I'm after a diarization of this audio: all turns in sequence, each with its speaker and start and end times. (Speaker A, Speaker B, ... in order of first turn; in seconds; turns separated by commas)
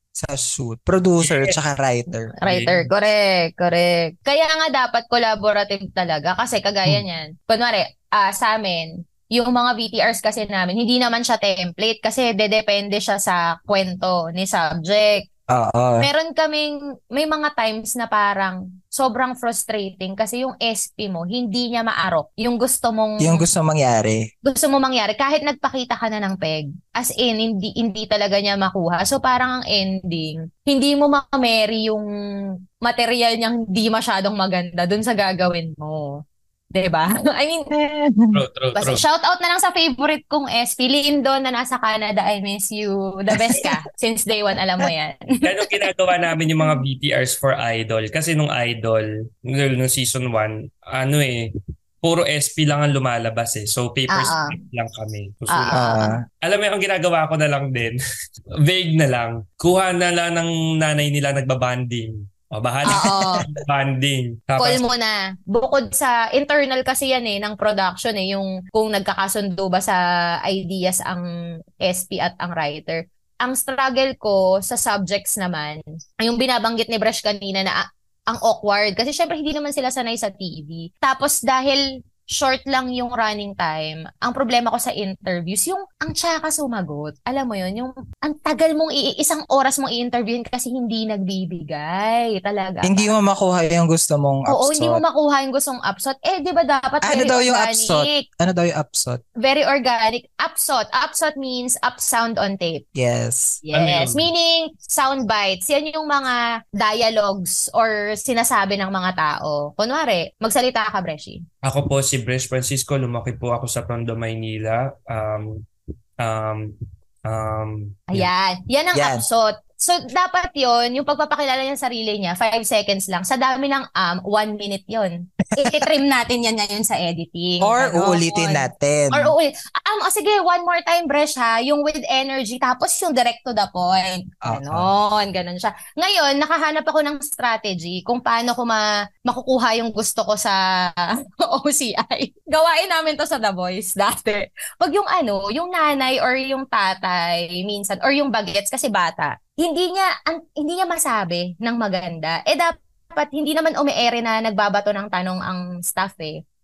Speaker A: 0.1-2.3, Speaker B: 1.2-1.6, Speaker C: 2.4-15.3, Speaker B: 2.4-2.9, Speaker A: 15.5-16.1, Speaker C: 16.0-23.5, Speaker A: 23.2-24.3, Speaker C: 24.4-32.1, Speaker C: 32.8-36.2, Speaker C: 36.7-37.7, Speaker A: 37.7-38.4, Speaker B: 38.3-39.0, Speaker C: 38.7-45.7, Speaker A: 43.4-43.7, Speaker B: 45.4-51.5, Speaker B: 52.0-55.9, Speaker C: 54.1-54.5, Speaker C: 55.5-56.1, Speaker A: 55.7-56.2, Speaker B: 56.4-58.0, Speaker B: 58.6-64.8, Speaker C: 62.9-63.5, Speaker A: 62.9-63.5, Speaker C: 64.6-71.2, Speaker C: 71.8-93.1, Speaker A: 92.8-95.0, Speaker C: 94.5-98.2, Speaker A: 97.0-99.2, Speaker C: 99.4-102.8, Speaker A: 103.0-103.6, Speaker C: 103.6-111.4, Speaker B: 103.7-104.3, Speaker B: 111.6-115.6, Speaker B: 116.2-116.7, Speaker B: 117.2-118.2, Speaker C: 118.1-156.4, Speaker A: 118.9-119.2, Speaker A: 125.6-125.8, Speaker A: 127.6-129.3, Speaker A: 134.4-134.9